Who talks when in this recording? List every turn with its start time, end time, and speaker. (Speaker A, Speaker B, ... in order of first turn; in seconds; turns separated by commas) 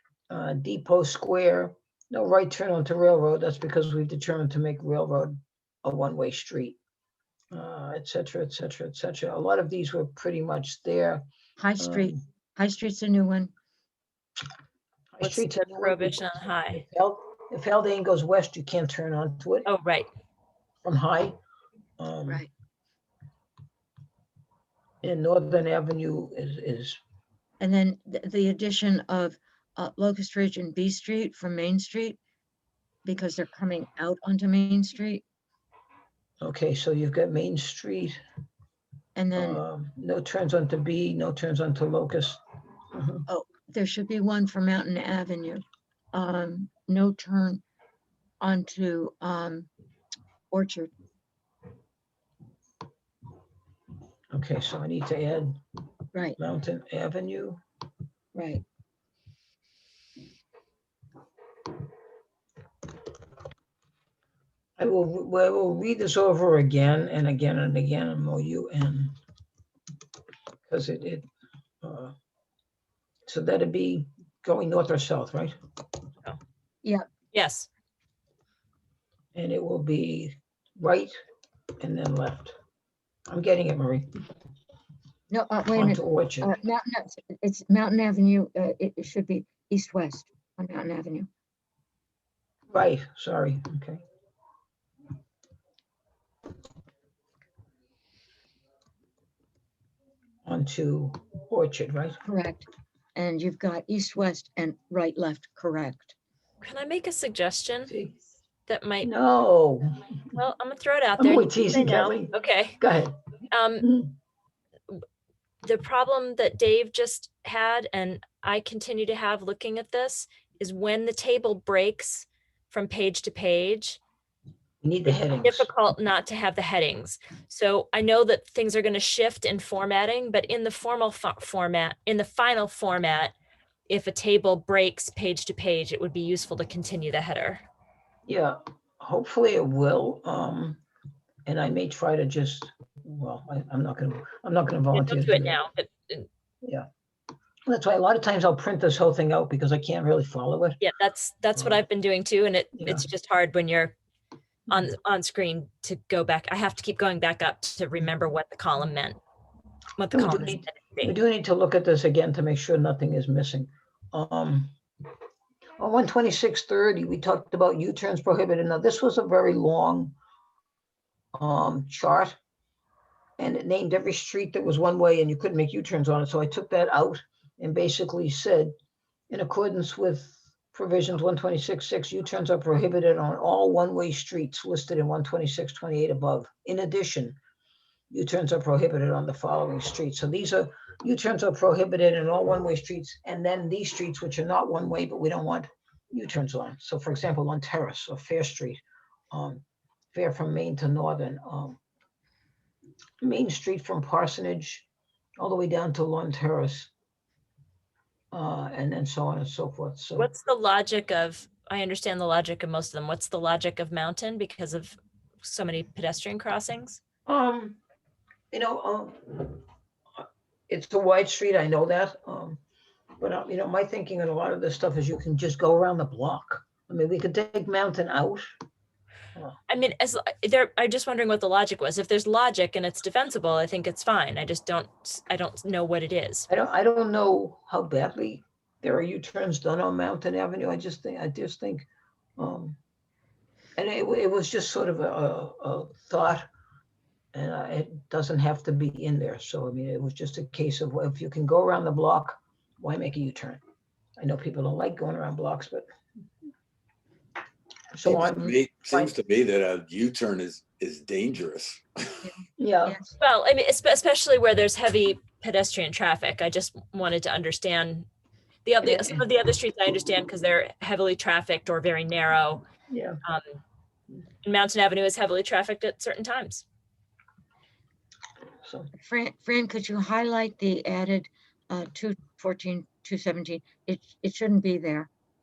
Speaker A: 0.3-6.8, Speaker A: 7.5-11.2, Speaker B: 11.6-13.5, Speaker A: 11.8-12.2, Speaker A: 15.2-19.7, Speaker C: 15.2-16.8, Speaker C: 19.6-20.1, Speaker A: 20.8-21.4, Speaker A: 22.0-22.5, Speaker A: 25.0-27.0, Speaker B: 27.6-32.2, Speaker B: 33.0-35.2, Speaker A: 36.4-38.2, Speaker B: 39.2-39.6, Speaker A: 39.4-42.4, Speaker A: 42.9-43.2, Speaker B: 43.3-47.6, Speaker B: 48.4-49.7, Speaker B: 50.5-50.9, Speaker A: 54.3-55.6, Speaker A: 56.4-57.6, Speaker B: 58.4-58.6, Speaker A: 64.8-69.1, Speaker A: 70.7-71.3, Speaker A: 71.8-72.2, Speaker A: 73.3-75.6, Speaker C: 77.3-77.7, Speaker A: 79.3-81.2, Speaker A: 81.8-82.6, Speaker A: 83.3-84.1, Speaker B: 85.3-91.3, Speaker A: 85.7-86.5, Speaker A: 92.7-94.0, Speaker A: 100.5-102.2, Speaker B: 102.2-102.7, Speaker B: 103.2-106.2, Speaker C: 106.6-107.9, Speaker A: 107.9-108.2, Speaker C: 108.7-109.1, Speaker A: 109.0-110.2, Speaker C: 110.3-112.8, Speaker A: 111.2-113.2, Speaker C: 113.5-113.9, Speaker A: 113.8-114.1, Speaker C: 115.6-124.0, Speaker A: 124.8-125.7, Speaker C: 125.4-133.3, Speaker C: 133.9-137.6, Speaker A: 138.3-140.8, Speaker A: 141.5-145.6, Speaker C: 144.9-146.3, Speaker A: 147.7-150.8, Speaker C: 150.8-153.9, Speaker A: 151.6-151.8, Speaker A: 152.8-153.1, Speaker C: 154.7-159.2, Speaker C: 160.0-161.2, Speaker A: 160.1-164.7, Speaker A: 165.8-170.2, Speaker A: 171.3-172.4, Speaker A: 173.4-178.8, Speaker A: 179.3-187.4, Speaker A: 188.1-201.8, Speaker A: 203.2-204.9, Speaker A: 205.4-206.9, Speaker A: 208.3-210.3, Speaker C: 210.2-217.0, Speaker A: 217.3-217.8, Speaker A: 218.5-219.6, Speaker A: 220.7-222.6, Speaker A: 223.2-228.5, Speaker C: 229.7-236.5, Speaker A: 236.5-241.9, Speaker A: 242.4-242.8, Speaker A: 243.8-246.5, Speaker A: 247.3-253.6, Speaker A: 254.2-255.8, Speaker A: 257.9-259.2, Speaker D: 258.0-262.3, Speaker B: 262.3-263.2, Speaker A: 262.6-263.0, Speaker C: 263.2-268.1, Speaker C: 268.6-272.6, Speaker A: 268.9-269.2, Speaker A: 272.9-273.2, Speaker C: 274.4-276.6, Speaker A: 278.6-278.9, Speaker B: 278.9-285.1